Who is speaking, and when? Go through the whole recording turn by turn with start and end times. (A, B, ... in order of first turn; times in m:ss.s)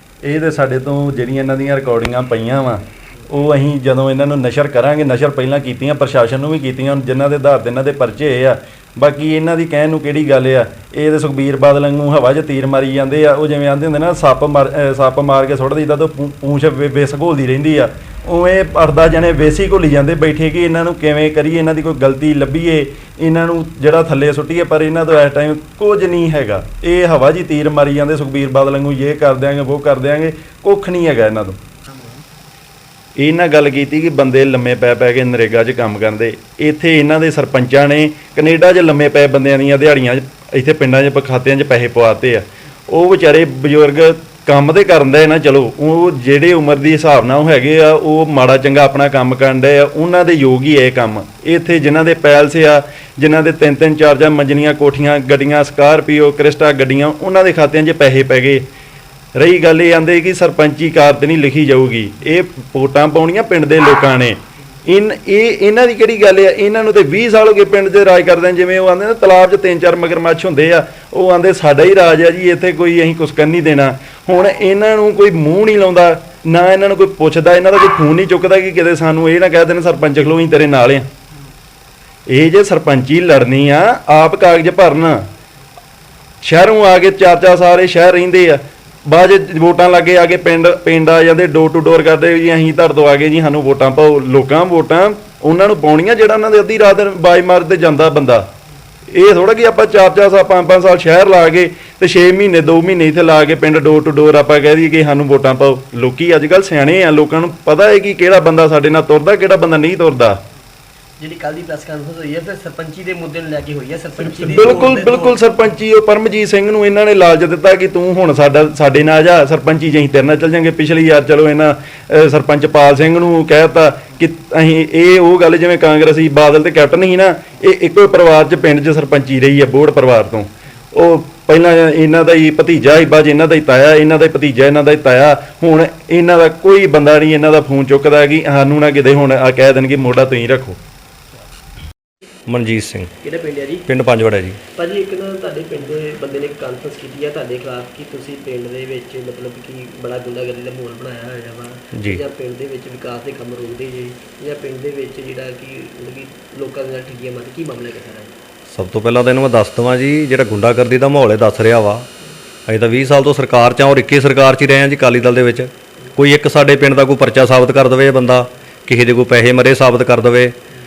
0:00.2-0:31.6 A
0:31.9-0:32.2 B
0:33.2-0:58.6 A
0:59.4-1:21.1 A
1:22.3-1:25.3 A
1:26.4-1:38.5 A
1:39.1-1:50.4 A
1:51.2-1:55.4 B
1:54.4-2:20.8 A
2:22.5-2:23.1 C
2:23.2-2:23.9 B
2:23.9-2:24.6 C
2:24.8-2:38.3 B
2:31.9-2:32.2 C
2:38.7-2:42.1 C
2:42.7-2:50.5 C